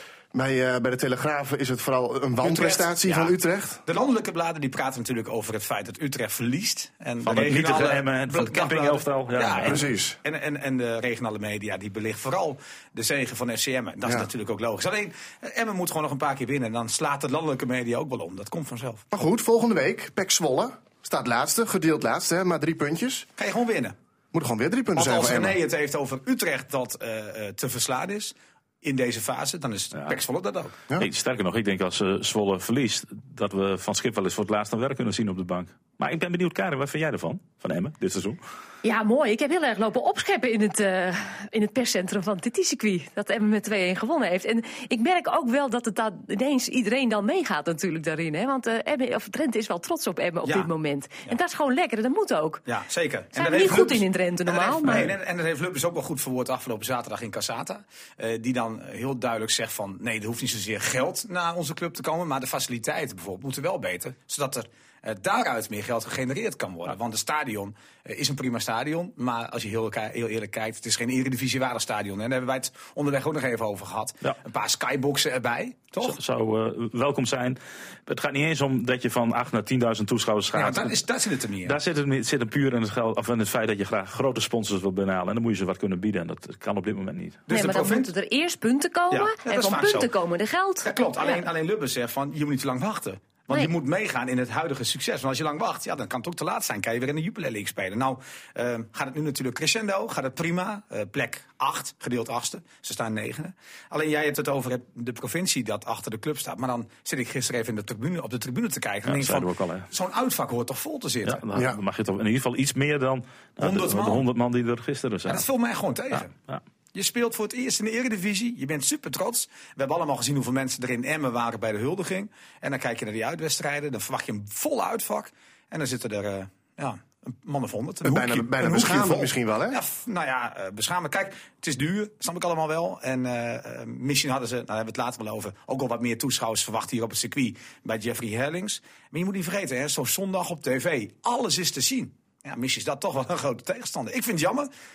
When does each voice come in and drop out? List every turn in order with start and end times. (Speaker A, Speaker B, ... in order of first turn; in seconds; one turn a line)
Speaker A: 0.3-3.8
Speaker B: 2.4-19.0
Speaker C: 7.2-9.8
Speaker A: 9.6-10.2
Speaker A: 19.1-23.3
Speaker B: 23.4-23.9
Speaker A: 24.3-25.6
Speaker B: 24.9-30.9
Speaker C: 31.0-38.4
Speaker D: 38.8-52.6
Speaker B: 50.5-50.7
Speaker B: 52.7-76.2
Speaker D: 53.3-55.1
Speaker C: 76.0-81.0
Speaker B: 80.5-81.8
Speaker C: 81.6-87.4
Speaker B: 87.5-88.1
Speaker D: 87.5-91.4
Speaker B: 89.1-90.1
Speaker B: 90.8-111.5
Speaker C: 109.0-109.9
Speaker C: 111.2-115.5
Speaker B: 113.6-114.3
Speaker B: 115.3-116.4
Speaker B: 116.9-144.7
Speaker A: 128.1-129.8